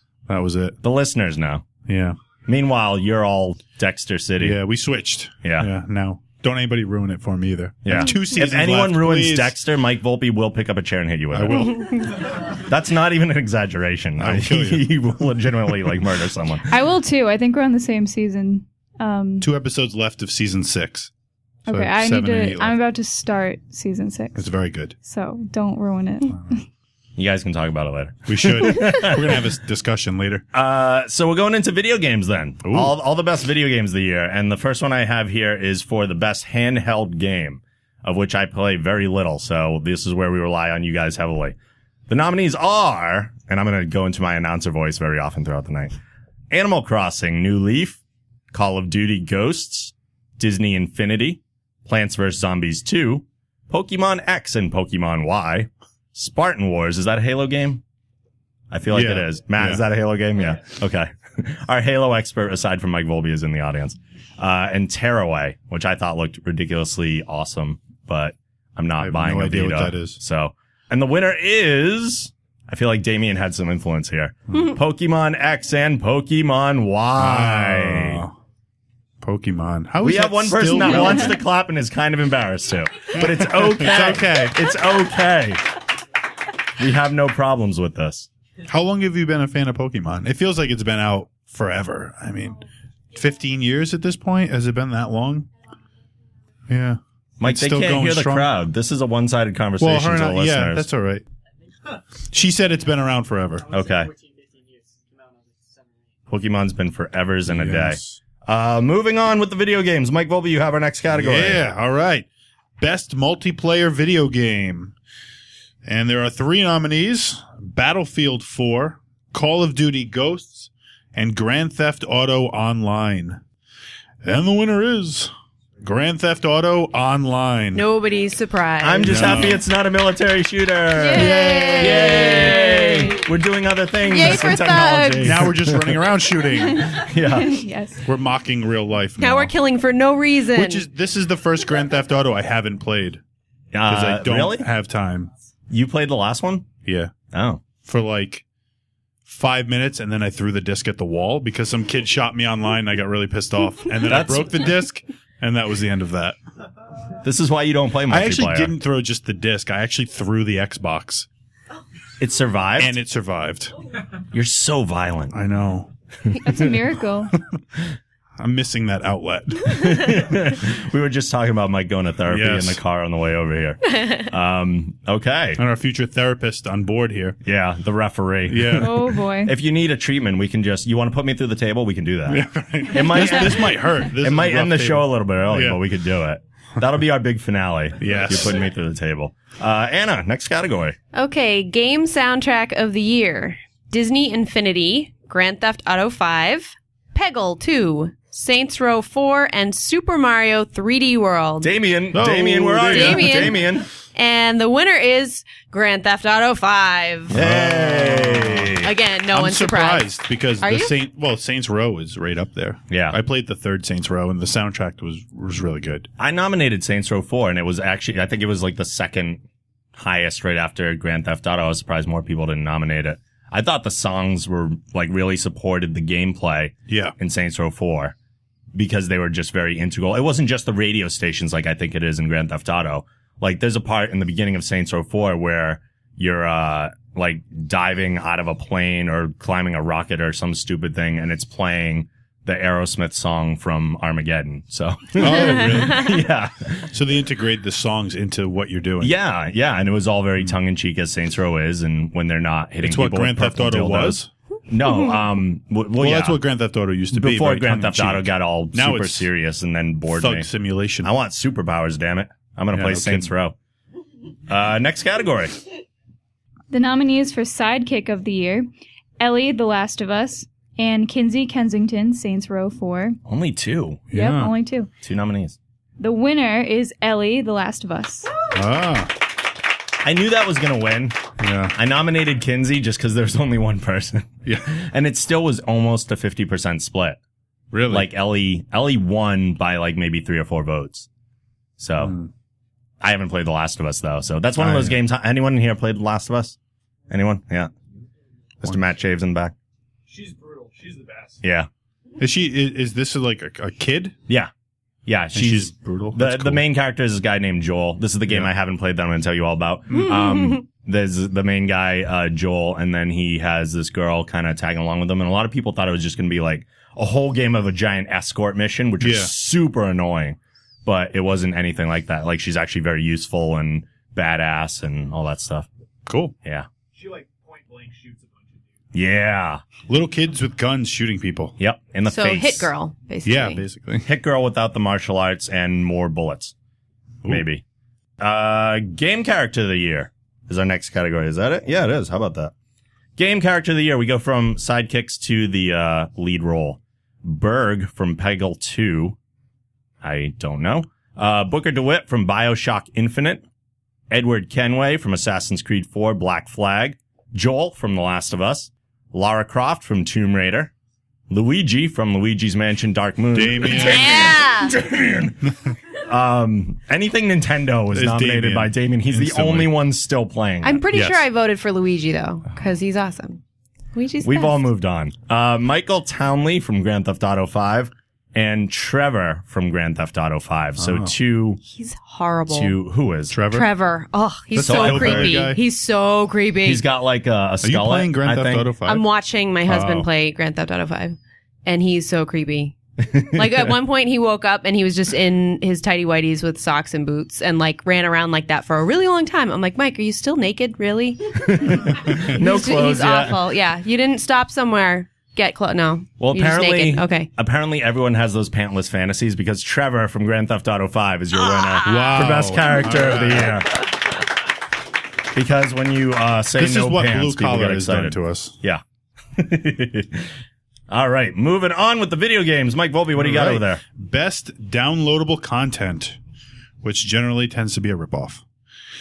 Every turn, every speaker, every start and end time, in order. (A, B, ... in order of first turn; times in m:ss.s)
0:00.3-0:00.8 A
0:00.8-0:01.6 B
0:01.9-0:02.2 A
0:02.5-0:04.6 B
0:04.4-0:09.6 A
0:05.4-0:05.7 B
0:07.8-0:16.6 B
0:11.3-0:12.0 A
0:14.2-0:14.9 A
0:16.7-0:19.5 C
0:19.4-0:21.1 A
0:21.7-0:22.8 A
0:21.7-0:24.5 C
0:24.4-0:25.0 A
0:25.0-0:26.6 C
0:27.2-0:29.4 B
0:28.3-0:30.4 A
0:30.5-0:41.6 B
0:32.6-0:33.0 A
0:42.1-0:46.0 B
0:46.5-0:48.0 B
0:48.5-0:57.8 B
0:58.7-1:18.2 B
0:58.9-0:59.8 A
1:09.0-1:10.2 A
1:17.2-1:18.4 A
1:19.2-1:21.4 A
1:20.0-1:25.6 B
1:23.1-1:24.6 A
1:26.8-1:28.3 B
1:28.6-1:32.6 A
1:33.1-1:35.5 A
1:36.7-1:38.5 A
1:37.4-1:40.9 B
1:39.8-1:41.2 A
1:42.3-1:43.6 A
1:43.7-1:44.1 B
1:43.8-1:46.1 D
1:46.3-1:51.6 B
1:47.5-1:48.2 A
1:51.1-1:52.2 A
1:52.8-1:55.0 A
1:55.8-2:03.4 A
2:04.2-2:07.8 A
2:07.7-2:09.5 E
2:08.8-2:16.0 B
2:09.1-2:09.6 A
2:11.0-2:13.1 E
2:11.1-2:12.6 A
2:14.1-2:15.4 E
2:15.2-2:16.9 A
2:16.7-2:18.0 C
2:16.8-2:17.6 B
2:18.0-2:19.5 A
2:19.2-2:20.9 E
2:20.5-2:23.2 A
2:23.7-2:24.7 B
2:23.9-2:25.3 A
2:25.7-2:26.7 B
2:26.8-2:27.1 A
2:27.3-2:27.6 B
2:27.8-2:28.4 A
2:29.2-2:36.4 A
2:34.1-2:34.7 B
2:37.2-2:38.7 B
2:38.1-2:41.3 A
2:42.2-2:42.9 B
2:42.8-2:43.7 A
2:44.3-2:45.4 B
2:45.3-2:45.9 A
2:46.4-2:47.3 C
2:48.4-2:50.1 A
2:49.7-2:55.6 B
2:52.3-2:52.8 A
2:55.6-2:57.4 A
2:57.4-3:11.0 B
2:58.5-2:58.9 A
2:58.8-2:59.5 C
3:02.3-3:05.8 A
3:08.0-3:08.6 A
3:11.1-3:21.7 E
3:21.6-3:23.9 B
3:22.1-3:23.6 A
3:22.9-3:23.6 E
3:24.1-3:27.3 E
3:27.3-3:28.9 B
3:27.3-3:36.1 A
3:28.8-3:30.1 E
3:30.6-3:30.9 E
3:32.9-3:33.2 B
3:36.2-3:39.4 B
3:40.0-3:48.1 B
3:46.9-3:47.1 A
3:48.7-4:06.9 B
4:05.2-4:06.2 A
4:06.9-4:09.1 A
4:09.0-4:16.4 B
4:12.8-4:14.3 A
4:16.0-4:19.3 A
4:17.1-4:20.5 B
4:20.1-4:21.1 A
4:21.0-4:23.6 B
4:22.7-4:23.3 A
4:24.5-4:25.6 B
4:26.7-4:28.7 C
4:29.2-4:33.2 C
4:33.3-4:34.0 B
4:34.1-4:34.5 A
4:34.1-4:34.9 C
4:35.0-4:35.6 B
4:36.0-4:38.3 C
4:38.5-4:39.1 A
4:40.0-4:41.2 B
4:41.4-4:41.8 A
4:41.8-4:47.2 B
4:47.7-4:48.1 A
4:47.9-4:51.1 B
4:51.8-4:52.1 B
4:52.0-4:52.3 A
4:53.0-4:56.6 B
4:54.6-4:55.0 A
4:57.1-4:57.7 B
4:58.6-4:59.5 B
5:00.3-5:01.0 D
5:01.4-5:01.7 B
5:02.2-5:04.2 A
5:05.1-5:25.7 B
5:05.3-5:06.6 A
5:08.3-5:08.5 A
5:09.9-5:10.2 A
5:19.0-5:19.3 A
5:26.1-5:26.3 A
5:27.0-5:28.3 D
5:28.9-5:29.6 B
5:29.9-5:31.6 A
5:31.6-5:32.7 B
5:32.1-5:33.6 E
5:33.2-5:34.1 A
5:34.0-5:36.5 B
5:37.2-5:37.6 B
5:38.2-5:42.5 B
5:43.2-5:49.2 B
5:50.0-5:53.4 B
5:54.1-6:00.7 B
6:01.3-6:10.8 B
6:03.3-6:04.2 A
6:03.8-6:04.7 E
6:07.9-6:09.7 A
6:10.6-6:13.4 E
6:10.9-6:11.2 A
6:13.9-6:14.6 E
6:14.2-6:21.6 B
6:20.8-6:21.1 A
6:21.6-6:22.7 E
6:22.5-6:23.4 B
6:23.3-6:23.7 A
6:23.5-6:26.8 E
6:24.5-6:25.6 A
6:24.6-6:25.5 B
6:26.6-6:28.7 B
6:27.6-6:29.1 A
6:28.9-6:47.3 E
6:29.7-6:30.1 A
6:33.1-6:33.6 B
6:41.4-6:43.4 B
6:46.2-6:53.9 B
6:51.5-6:52.1 E
6:51.8-6:53.6 A
6:55.3-6:58.8 B
6:56.6-6:58.6 A
6:59.4-7:00.3 B
7:00.9-7:03.8 B
7:03.2-7:06.2 A
7:06.8-7:08.4 A